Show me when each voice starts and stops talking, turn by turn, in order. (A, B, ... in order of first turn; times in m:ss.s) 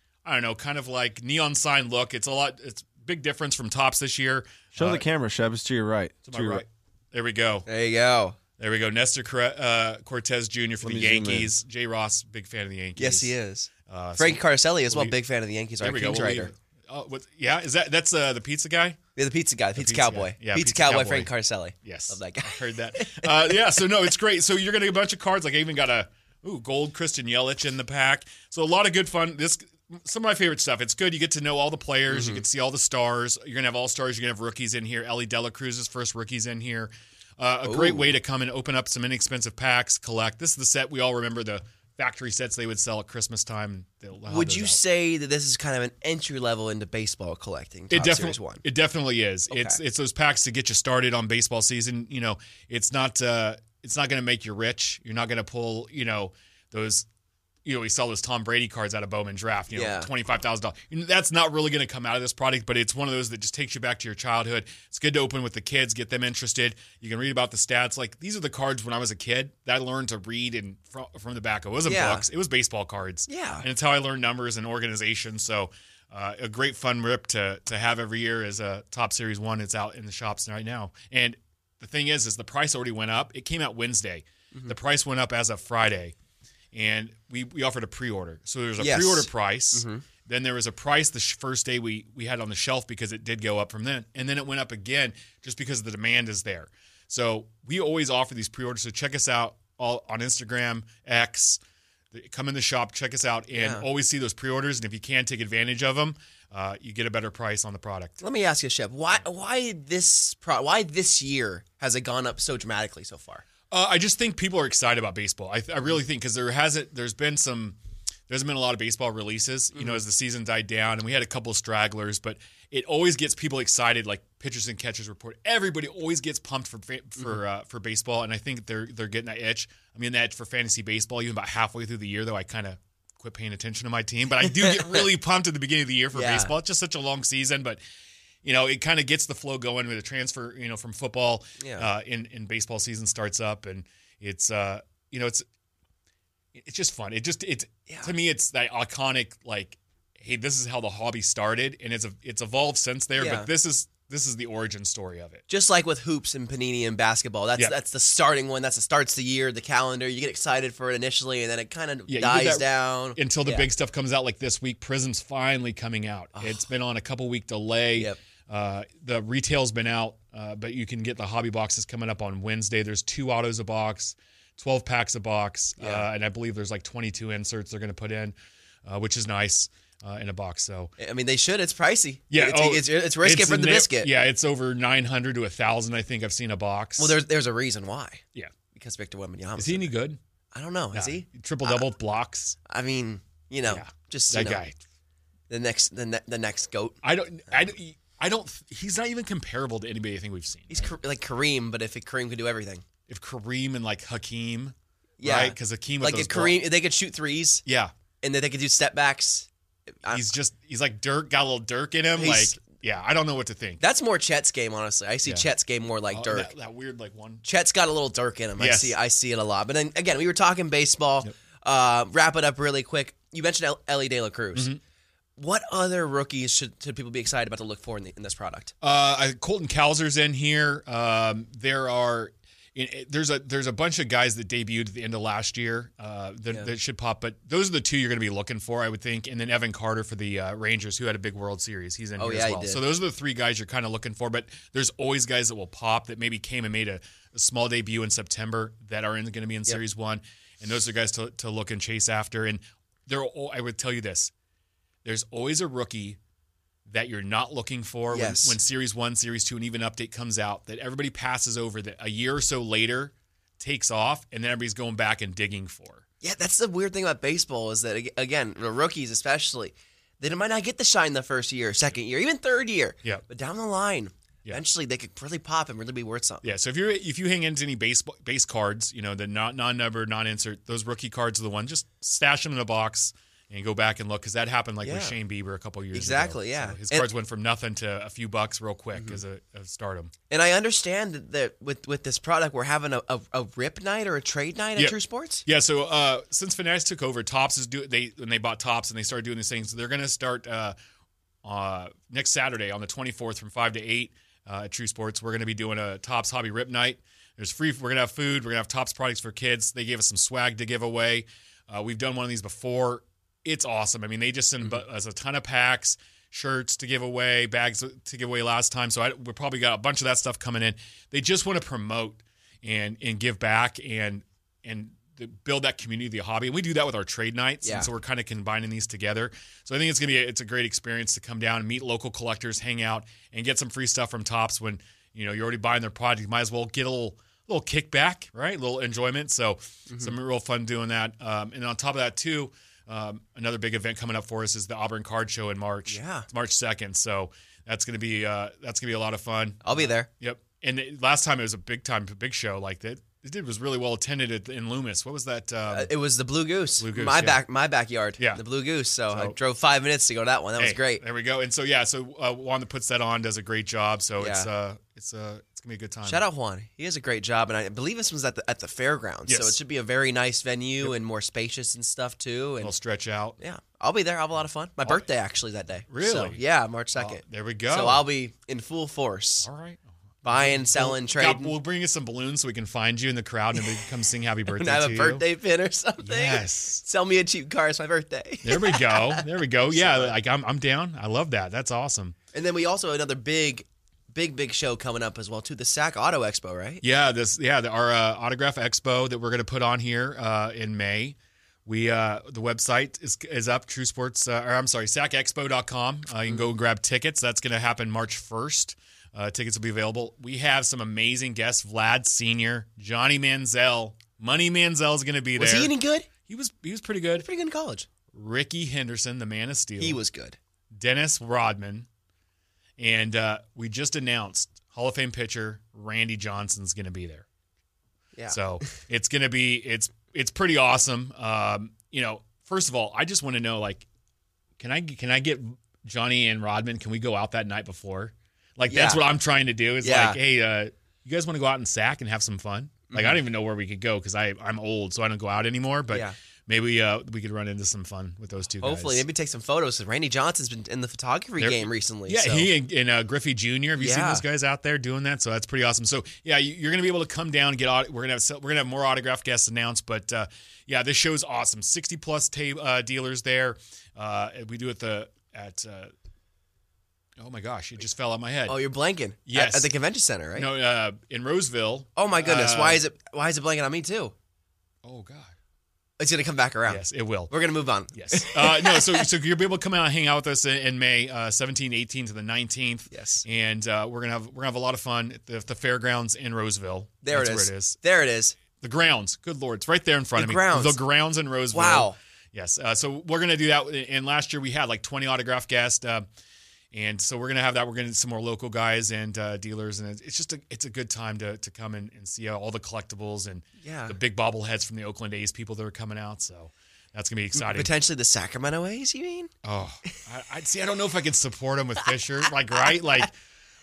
0:00.2-0:05.0 A
0:04.8-0:06.6 B
0:06.2-0:07.7 A
0:07.7-0:08.4 C
0:08.6-0:13.3 A
0:10.8-0:11.5 B
0:13.0-0:16.5 C
0:13.9-0:15.2 A
0:15.8-0:19.0 A
0:19.2-0:23.7 C
0:19.7-0:21.3 A
0:21.8-0:44.8 A
0:32.1-0:32.4 C
0:37.6-0:38.1 C
0:44.3-0:48.6 C
0:47.9-0:57.1 A
0:49.5-0:49.8 C
0:57.6-1:26.1 A
0:59.7-1:00.1 C
1:11.8-1:12.2 C
1:13.3-1:13.6 C
1:26.7-1:41.6 A
1:28.8-1:30.0 C
1:42.1-1:48.2 A
1:43.5-1:43.8 C
1:48.2-1:53.4 C
1:53.7-1:57.8 A
1:58.3-2:17.8 A
2:14.5-2:15.1 C
2:16.1-2:16.5 C
2:18.4-2:25.4 A
2:21.6-2:21.9 C
2:26.5-2:35.4 A
2:27.9-2:28.1 C
2:33.2-2:33.5 C
2:35.5-2:43.7 C
2:42.1-3:00.9 A
2:46.3-2:46.6 C
2:55.8-2:56.1 C
3:01.0-3:04.1 C
3:02.3-3:07.2 A
3:07.0-3:10.0 C
3:09.6-3:10.2 A
3:10.5-3:11.8 C
3:10.9-3:12.6 A
3:12.7-3:14.6 C
3:13.6-3:14.8 A
3:15.5-3:17.0 C
3:17.0-3:20.9 A
3:20.7-3:22.8 C
3:23.1-3:26.6 A
3:25.2-3:27.6 C
3:27.6-3:27.9 A
3:28.2-3:30.3 C
3:30.1-3:33.8 A
3:32.2-3:32.6 C
3:33.8-3:36.5 C
3:36.1-3:37.4 A
3:37.4-3:44.7 C
3:38.6-3:39.0 A
3:45.4-3:48.7 C
3:48.8-4:14.3 A
4:02.2-4:02.8 C
4:15.0-4:16.2 A
4:16.9-4:26.0 A
4:18.1-4:18.6 C
4:26.2-4:36.4 C
4:36.4-4:50.1 A
4:44.8-4:45.1 C
4:45.9-4:47.1 C
4:48.9-4:49.2 C
4:50.3-4:55.4 C
4:54.8-5:00.7 A
5:01.4-5:55.9 A
5:27.6-5:27.9 C
5:45.9-5:46.3 C
5:49.6-5:50.1 C
5:55.7-6:01.0 C
5:56.8-5:57.4 A
5:59.1-5:59.4 A
6:00.6-6:06.2 A
6:04.2-6:04.5 C
6:06.0-6:12.7 C
6:09.3-6:09.6 A
6:12.6-6:13.4 A
6:13.4-6:19.5 C
6:15.9-6:16.4 A
6:16.9-6:18.0 A
6:19.4-6:25.2 A
6:20.2-6:21.5 C
6:24.5-6:30.2 C
6:26.0-6:26.8 A
6:28.4-6:32.2 A
6:32.3-6:36.8 C
6:36.8-6:57.2 A
6:55.4-6:56.1 C
6:57.2-6:57.9 C
6:58.1-7:00.0 A
6:59.8-7:00.4 C
7:00.7-7:01.9 A
7:02.8-7:07.2 A
7:08.2-7:08.7 C
7:08.3-7:13.8 A
7:14.6-7:29.0 A
7:18.7-7:19.0 C
7:19.8-7:20.2 C
7:22.9-7:23.2 C
7:25.9-7:26.2 C
7:28.6-7:32.5 C
7:31.4-7:45.9 A
7:33.8-7:34.2 C
7:47.2-7:48.6 A
7:48.5-7:50.5 C
7:49.2-7:49.7 A
7:50.3-7:52.8 A
7:52.0-7:54.1 C
7:54.8-7:55.3 A
7:56.0-7:59.1 C
7:56.7-7:57.3 A
7:57.9-8:07.8 A
8:02.9-8:03.2 C
8:07.0-8:08.4 C
8:08.6-8:16.0 A
8:10.2-8:10.8 C
8:11.5-8:12.0 C
8:16.7-8:27.7 A
8:23.6-8:24.0 C
8:27.3-8:29.3 C
8:29.4-8:33.1 A
8:32.5-8:32.8 C